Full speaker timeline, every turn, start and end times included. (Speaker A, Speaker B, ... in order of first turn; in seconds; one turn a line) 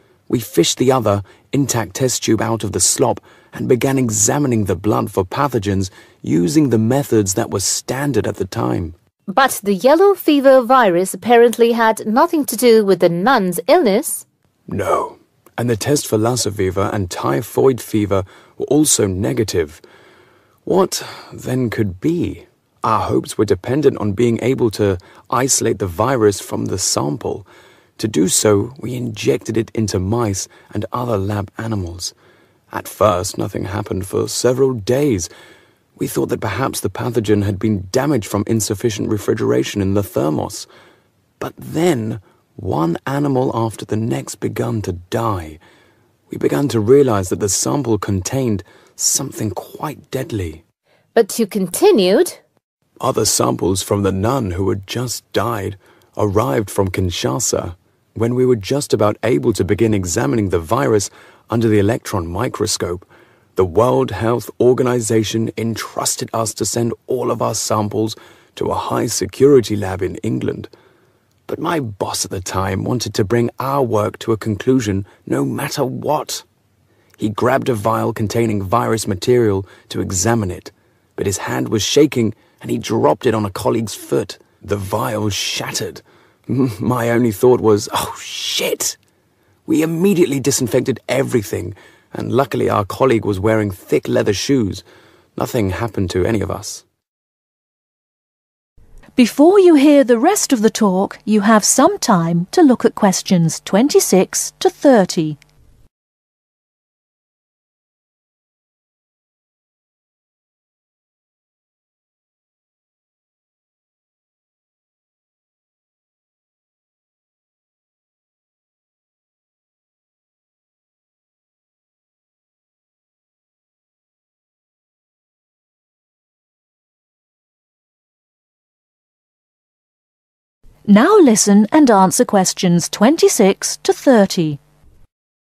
Speaker A: 0.3-8.9
Speaker B: 9.3-14.2
Speaker A: 14.7-19.8
Speaker A: 20.6-27.5
Speaker A: 28.0-32.1
Speaker A: 32.7-35.3
Speaker A: 36.0-40.7
Speaker A: 41.4-45.6
Speaker A: 46.3-50.6
Speaker B: 51.1-52.4
Speaker A: 53.0-70.7
Speaker A: 71.5-76.4
Speaker A: 77.2-89.0
Speaker A: 89.7-94.8
Speaker A: 95.3-96.8
Speaker C: 99.2-105.4
Speaker C: 130.9-134.6